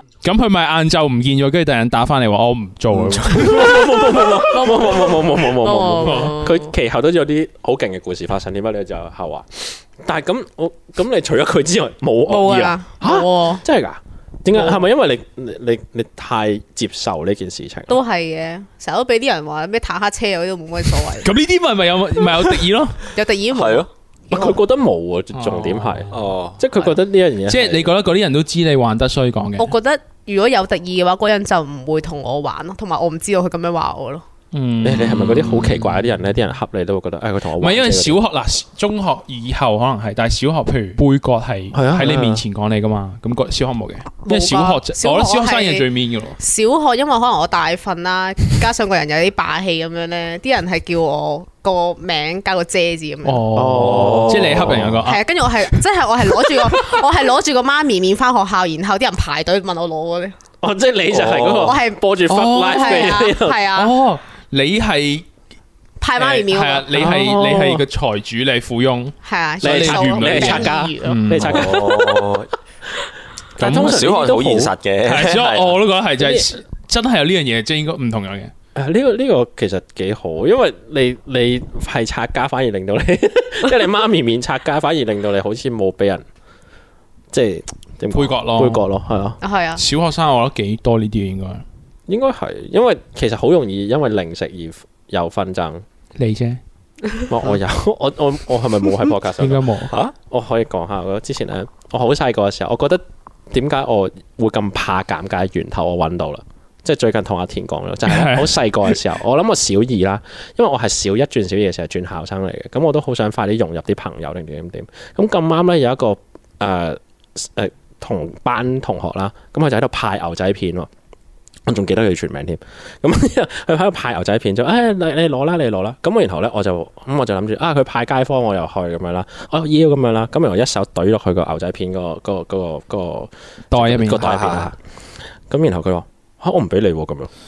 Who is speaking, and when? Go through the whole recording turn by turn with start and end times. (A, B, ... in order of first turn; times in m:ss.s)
0:00.2-0:03.8 A
0:02.9-0:18.0 B
0:04.4-0:06.7 C
0:06.0-0:06.3 A
0:12.3-0:13.6 C
0:17.9-0:21.3 C
0:21.2-0:23.1 A
0:23.1-0:24.6 C
0:23.5-0:23.9 D
0:24.3-0:27.9 B
0:25.3-0:26.1 A
0:26.1-0:26.6 D
0:27.5-0:29.7 A
0:29.6-0:34.2 C
0:34.5-0:36.3 A
0:34.8-0:38.2 B
0:37.6-0:46.4 A
0:41.7-0:42.4 B
0:44.2-0:45.8 C
0:46.4-0:53.5 C
0:53.2-0:55.2 A
0:53.5-0:54.8 B
0:53.8-0:55.0 D
0:55.0-1:00.4 C
0:56.4-0:56.7 B
1:00.6-1:03.6 B
1:01.1-1:01.8 D
1:01.6-1:02.0 C
1:02.3-1:05.2 A
1:02.6-1:03.9 C
1:06.0-1:06.9 C
1:06.2-1:11.7 A
1:06.9-1:07.8 B
1:09.2-1:11.2 C
1:09.6-1:12.4 B
1:11.4-1:12.5 D
1:13.6-1:14.7 B
1:13.6-1:15.8 D
1:13.6-1:14.0 A
1:15.0-1:18.5 A
1:16.2-1:16.5 B
1:18.7-1:26.2 B
1:27.3-1:29.4 B
1:28.1-1:28.8 A
1:29.4-1:29.8 C
1:29.8-1:31.6 A
1:32.1-1:35.8 B
1:36.2-1:36.6 A
1:37.3-1:39.7 B
1:39.4-1:39.9 A
1:39.8-1:40.1 D
1:40.2-2:00.9 B
1:48.0-1:49.0 A
2:01.6-2:14.7 B
2:13.7-2:14.5 A
2:14.2-2:14.7 D
2:15.5-2:17.3 B